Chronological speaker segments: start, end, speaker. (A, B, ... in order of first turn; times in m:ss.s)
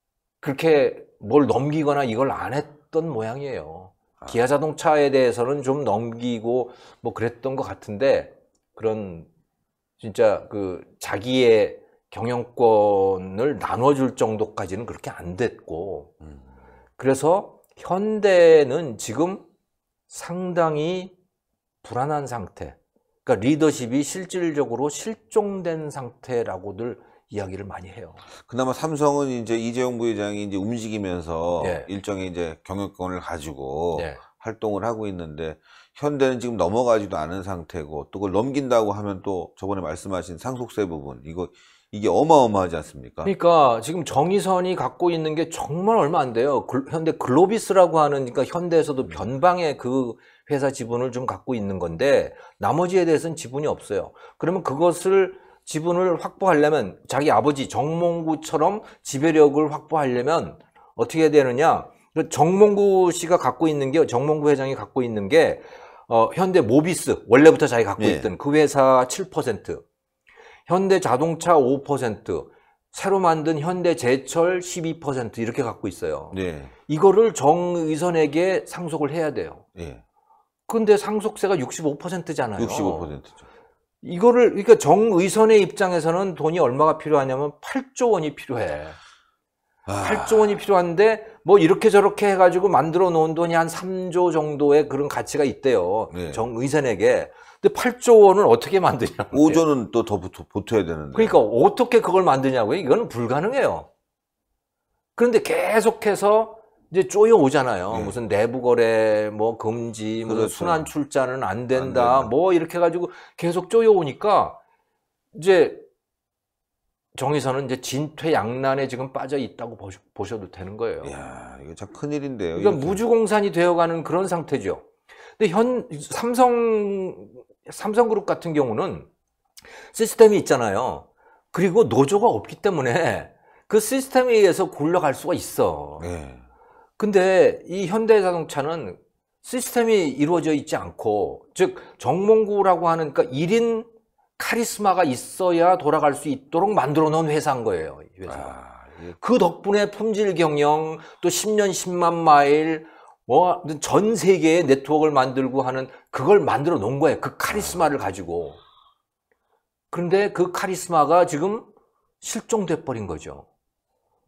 0:00.4-0:09.3 A
0:10.0-0:16.1 A
0:17.0-0:19.4 A
0:20.1-0:21.1 A
0:21.8-0:28.2 A
0:28.4-0:43.3 B
0:31.6-0:31.9 A
0:34.0-0:34.2 A
0:43.2-1:09.8 A
1:08.0-1:08.3 B
1:10.7-1:19.6 A
1:16.3-1:16.7 B
1:19.8-1:20.0 B
1:20.7-1:23.1 A
1:22.6-1:23.4 B
1:24.0-1:29.0 A
1:29.9-1:30.6 B
1:30.0-1:39.6 A
1:36.1-1:36.4 B
1:39.3-1:41.4 B
1:41.1-1:43.9 A
1:45.2-1:54.6 A
1:47.9-1:48.2 B
1:50.3-1:50.9 B
1:51.7-1:52.3 B
1:55.3-1:55.8 A
1:57.2-2:01.1 A
2:01.0-2:03.0 B
2:02.6-2:04.8 A
2:05.4-2:09.1 A
2:09.9-2:16.1 A
2:16.0-2:16.4 B
2:17.0-2:28.5 A
2:28.2-2:29.2 B
2:29.2-2:38.6 A
2:37.5-2:37.9 B
2:39.9-2:41.7 A
2:42.2-2:43.5 A